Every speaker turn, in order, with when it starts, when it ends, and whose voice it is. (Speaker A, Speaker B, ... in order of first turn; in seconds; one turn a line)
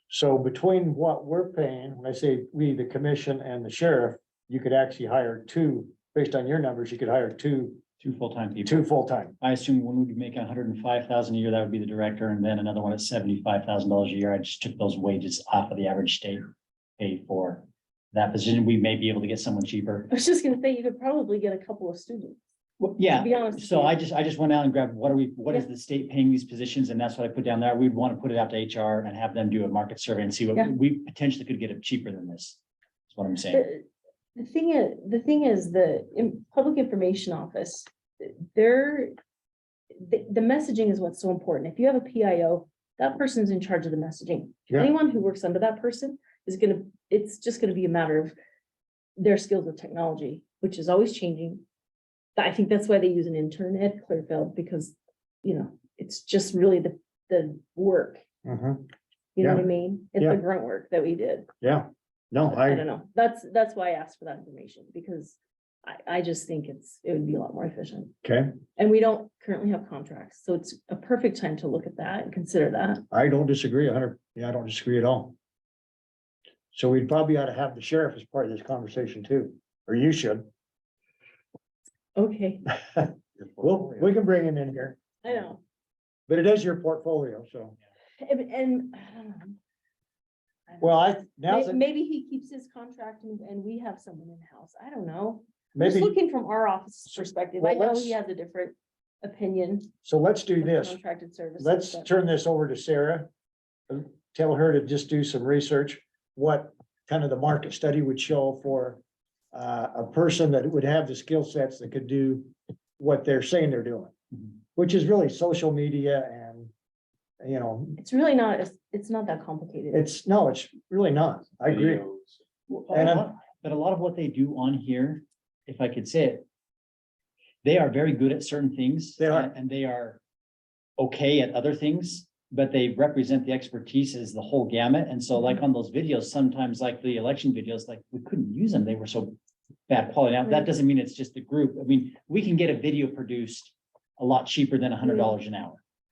Speaker A: 0.1-7.8
Speaker B: 8.0-8.9
Speaker A: 8.7-9.3
Speaker B: 9.4-20.1
Speaker C: 20.1-22.4
Speaker B: 22.8-32.6
Speaker C: 23.1-24.0
Speaker B: 33.1-33.7
Speaker C: 33.5-39.1
Speaker C: 40.0-48.4
Speaker C: 49.2-51.6
Speaker C: 52.4-58.2
Speaker A: 58.5-58.9
Speaker C: 59.4-61.5
Speaker A: 59.4-59.6
Speaker A: 61.6-62.8
Speaker C: 62.5-68.1
Speaker A: 68.2-68.5
Speaker C: 68.8-73.0
Speaker A: 73.1-75.4
Speaker A: 76.7-80.5
Speaker C: 82.2-82.7
Speaker A: 82.9-85.0
Speaker C: 85.2-85.6
Speaker A: 86.3-87.8
Speaker C: 88.2-89.6
Speaker C: 90.7-99.9
Speaker A: 90.8-91.8
Speaker A: 95.8-96.1
Speaker A: 97.2-98.2
Speaker A: 100.0-101.0
Speaker C: 100.6-102.1
Speaker A: 101.6-103.3
Speaker A: 103.9-109.0
Speaker A: 109.5-114.1
Speaker A: 114.8-116.7
Speaker A: 117.4-118.0
Speaker C: 118.0-120.1
Speaker A: 119.9-122.1
Speaker B: 122.7-126.4
Speaker A: 122.9-123.3
Speaker B: 127.6-130.2
Speaker A: 129.2-129.5
Speaker B: 131.0-139.4
Speaker B: 139.9-145.8
Speaker C: 145.1-145.3